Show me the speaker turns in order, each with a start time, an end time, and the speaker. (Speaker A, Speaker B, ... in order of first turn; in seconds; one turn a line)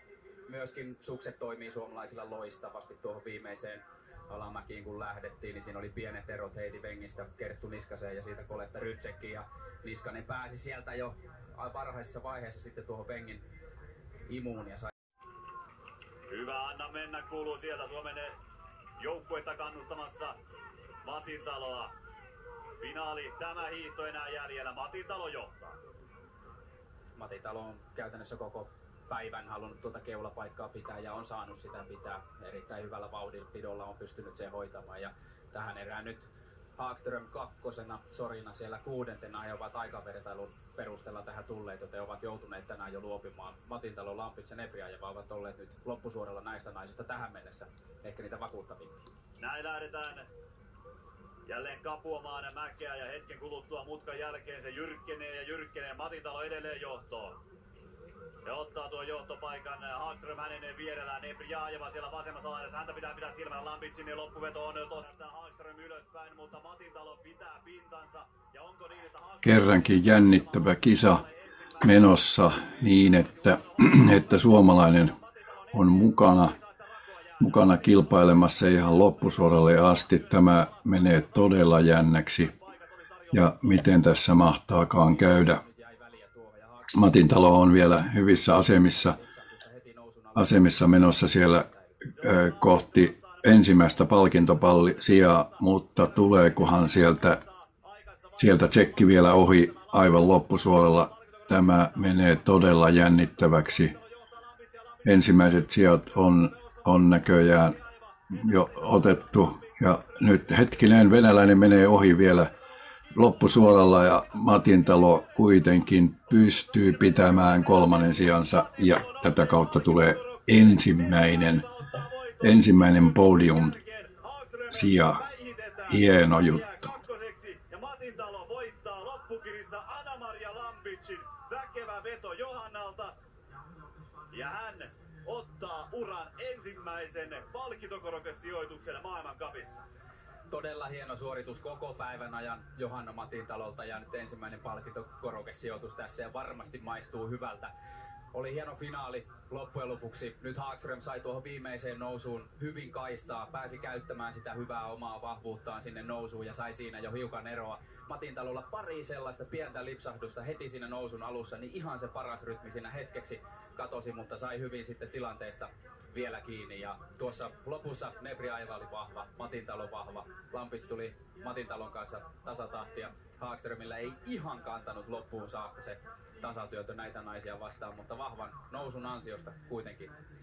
Speaker A: 0.5-13.4
Speaker A: 14.3-14.9
Speaker B: 16.3-18.4
Speaker B: 19.0-20.4
Speaker B: 21.0-21.9
Speaker B: 22.8-25.8
Speaker A: 27.2-48.9
Speaker B: 49.4-50.3
Speaker B: 51.5-57.4
Speaker B: 58.4-84.1
Speaker C: 69.4-71.2
Speaker C: 71.8-75.1
Speaker C: 75.7-76.5
Speaker C: 77.4-82.5
Speaker C: 83.3-85.6
Speaker A: 84.9-92.0
Speaker C: 86.9-89.2
Speaker C: 90.3-91.7
Speaker B: 92.1-133.1
Speaker C: 92.2-97.4
Speaker C: 98.4-103.9
Speaker C: 105.0-107.8
Speaker C: 108.4-112.5
Speaker C: 113.1-121.6
Speaker C: 122.4-123.7
Speaker C: 124.7-125.2
Speaker C: 125.9-126.7
Speaker B: 134.3-139.8
Speaker A: 140.5-147.7
Speaker A: 148.3-180.1